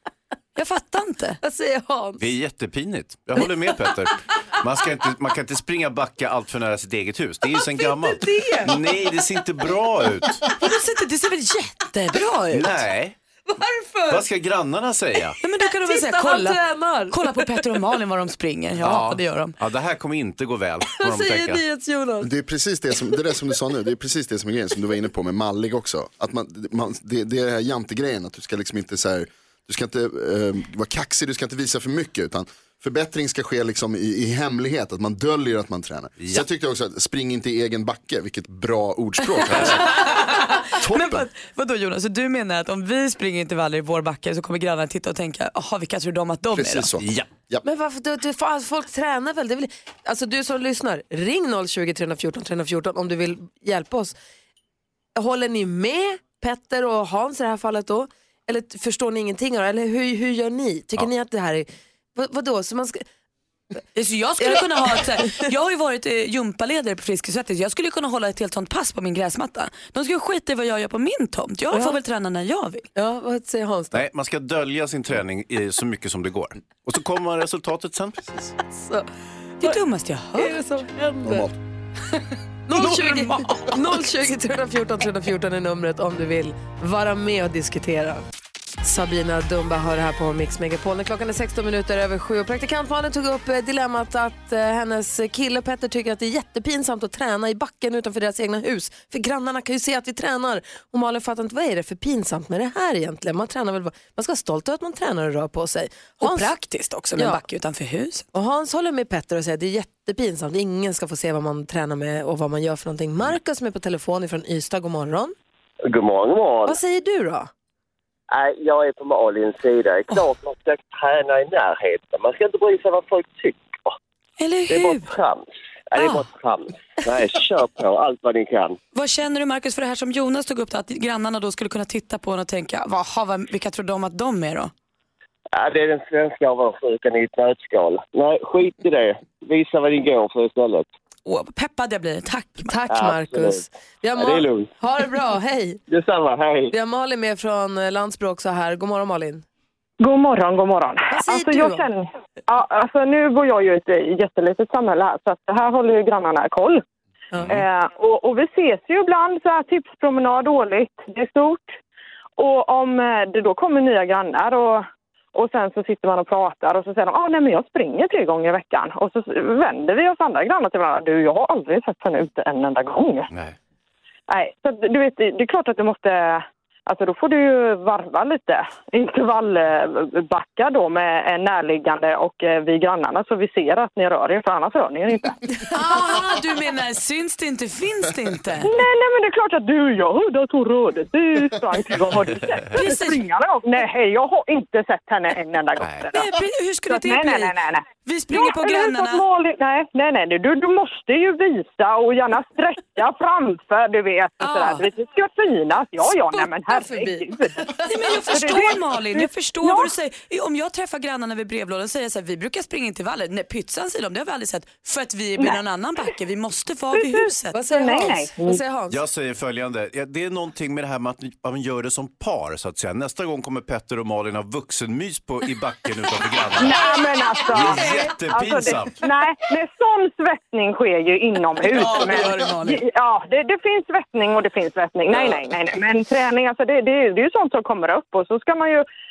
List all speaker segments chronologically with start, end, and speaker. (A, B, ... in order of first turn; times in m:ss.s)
0:00.6-0:01.4 A
0:01.4-0:02.3 B
0:02.2-0:10.4 C
0:07.7-0:08.8 B
0:10.5-0:12.8 A
0:12.5-0:13.2 C
0:13.5-0:14.2 B
0:14.1-0:15.4 C
0:15.4-0:19.6 A
0:15.8-0:17.2 B
0:18.8-0:21.6 C
0:21.0-0:22.3 B
0:22.2-0:40.1 D
0:36.2-0:36.5 C
0:39.5-0:46.9 A
0:39.5-0:39.8 C
0:40.8-0:41.2 D
0:46.5-0:47.6 D
0:47.0-0:47.3 C
0:47.6-0:54.1 B
0:55.2-1:03.0 B
1:04.0-1:12.9 A
1:04.4-1:05.4 B
1:11.7-1:12.0 B
1:13.0-1:14.0 B
1:13.9-1:18.5 C
1:18.7-1:19.1 B
1:19.6-1:20.6 A
1:20.4-1:21.5 B
1:21.2-1:21.5 D
1:22.7-1:28.2 B
1:22.8-1:24.0 A
1:28.8-1:46.5 B
1:46.2-1:48.3 A
1:48.3-1:55.3 B
1:55.9-1:56.8 E
1:56.7-1:57.5 B
1:58.3-2:04.0 E
2:04.4-2:05.1 A
2:04.7-2:08.8 E
2:08.9-2:14.7 A
2:15.6-2:20.9 E
2:21.3-2:22.8 A
2:22.6-2:25.8 B
2:22.9-2:24.7 E
2:25.9-2:26.7 E
2:26.7-2:29.4 B
2:30.0-2:36.8 F
2:31.1-2:31.9 B
2:37.5-2:41.8 F
2:42.4-2:53.3 F
2:53.3-2:53.6 C
2:54.3-3:05.4 F
3:05.7-3:08.7 A
3:08.6-3:16.3 F
3:12.7-3:13.2 A
3:15.8-3:16.1 C
3:16.1-3:19.2 A
3:16.9-3:27.7 F
3:24.4-3:24.8 A
3:26.3-3:28.5 B
3:27.8-3:37.6 A
3:28.2-3:30.0 F
3:36.9-3:38.6 F
3:37.5-3:39.0 B
3:38.9-3:46.8 C
3:46.6-3:58.9 F
3:47.5-3:49.0 C
3:51.7-3:52.8 A